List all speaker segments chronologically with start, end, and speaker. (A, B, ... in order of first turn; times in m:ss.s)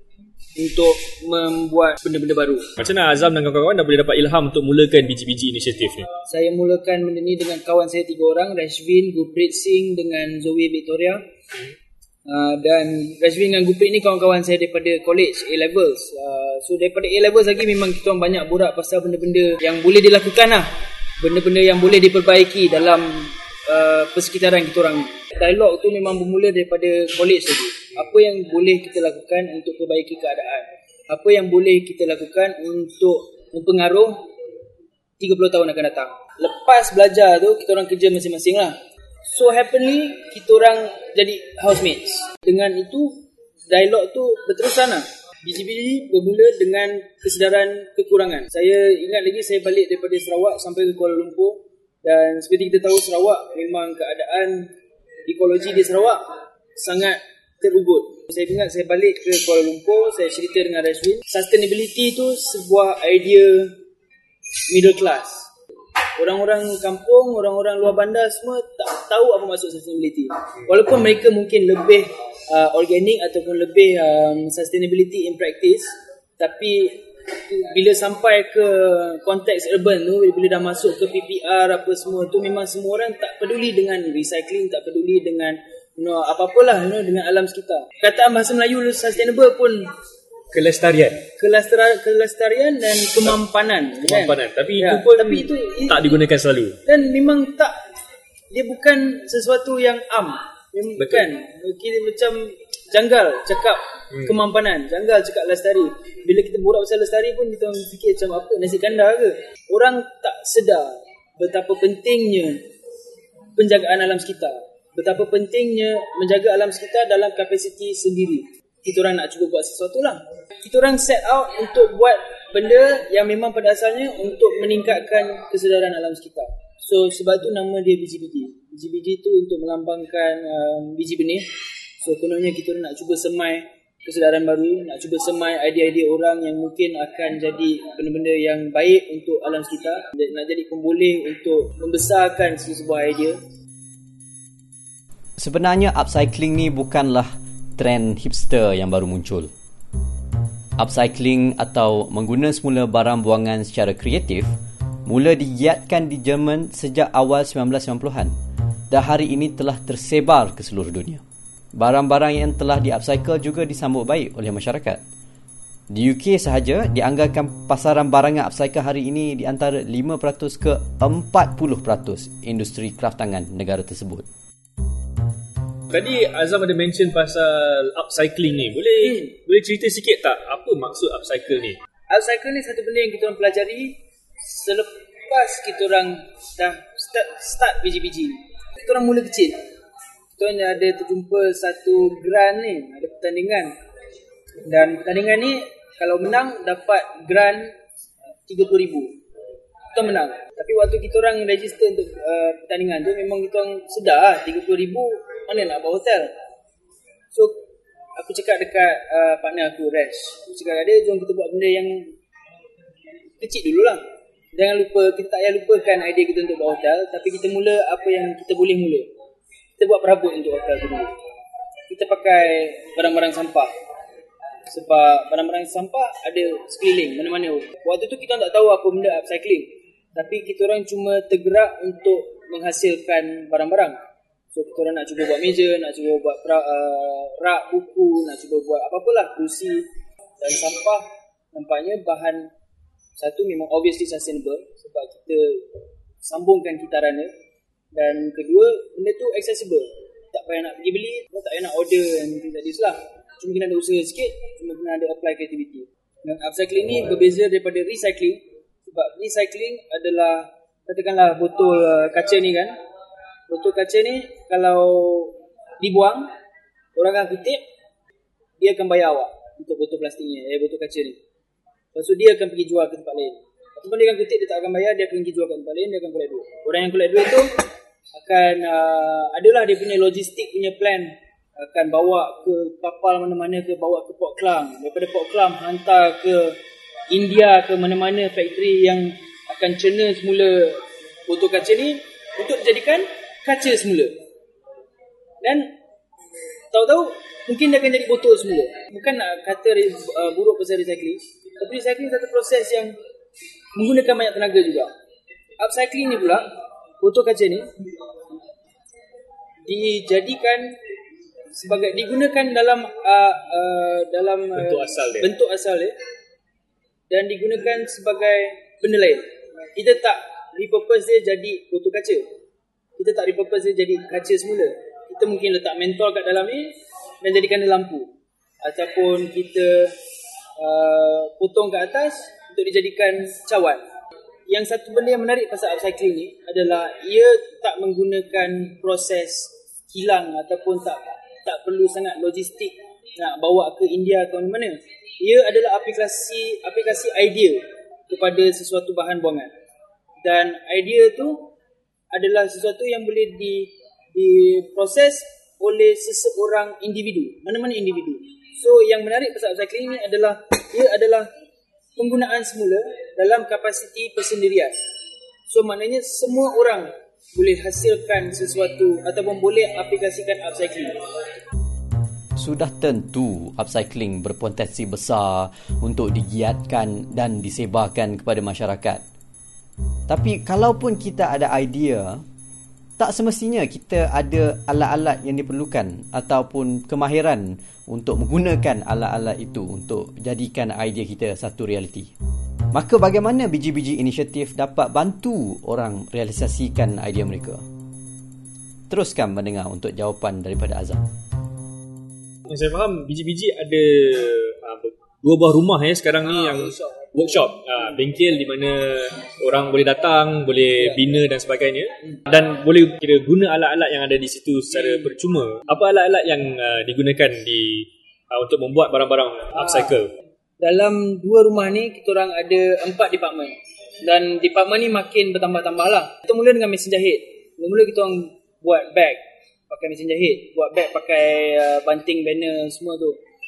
0:00.6-0:02.8 A
0:02.8-0:06.1 B
0:06.2-0:11.2 A
0:12.2-0:20.7 A
0:21.2-0:34.2 A
0:35.2-0:43.1 A
0:43.7-0:54.7 A
0:55.3-0:56.2 A
0:56.8-1:03.8 A
1:04.7-1:05.5 A
1:06.2-1:29.9 A
1:30.5-1:31.3 B
1:31.3-1:36.2 A
1:34.0-1:36.8 B
1:36.8-1:37.7 A
1:38.5-1:52.6 A
1:41.0-1:41.2 B
1:53.6-2:11.4 A
2:12.0-2:23.4 A
2:25.4-2:29.5 C
2:30.8-2:34.5 C
2:35.0-2:38.3 C
2:38.9-2:41.2 C
2:41.7-2:45.0 C
2:45.9-2:54.2 C
2:55.9-3:01.8 B
3:02.1-3:09.6 A
3:10.4-3:13.7 A
3:14.6-3:17.7 A
3:18.4-3:19.1 A
3:19.9-3:26.3 A
3:28.2-3:32.1 A
3:33.4-3:34.0 A
3:34.5-3:39.1 A
3:39.8-3:41.1 A
3:41.9-3:43.7 A
3:44.7-3:54.0 A
3:54.5-3:59.9 A
4:00.4-4:02.5 A
4:03.2-4:07.3 A
4:07.9-4:22.7 A
4:23.5-4:26.2 A
4:27.0-4:27.6 A
4:28.6-4:31.2 A
4:31.9-4:37.6 A
4:38.1-4:46.6 A
4:47.1-4:54.2 A
4:55.4-4:55.7 A
4:56.7-5:02.9 A
5:03.7-5:04.9 A
5:05.6-5:06.4 A
5:07.0-5:07.6 A
5:09.6-5:10.8 A
5:11.5-5:15.9 A
5:14.5-5:15.3 B
5:17.1-5:22.2 A
5:23.0-5:28.1 A
5:28.6-5:30.0 A
5:30.6-5:33.8 A
5:34.5-5:49.5 A
5:50.2-5:51.5 A
5:52.1-6:01.3 A
6:02.0-6:04.7 A
6:05.5-6:11.0 A
6:12.4-6:19.0 C
6:20.1-6:22.2 C
6:23.0-6:32.1 C
6:32.7-6:37.6 C
6:38.9-6:41.0 C
6:42.5-7:00.1 B
6:46.2-6:47.2 A
6:59.5-7:00.0 A
7:00.6-7:13.2 A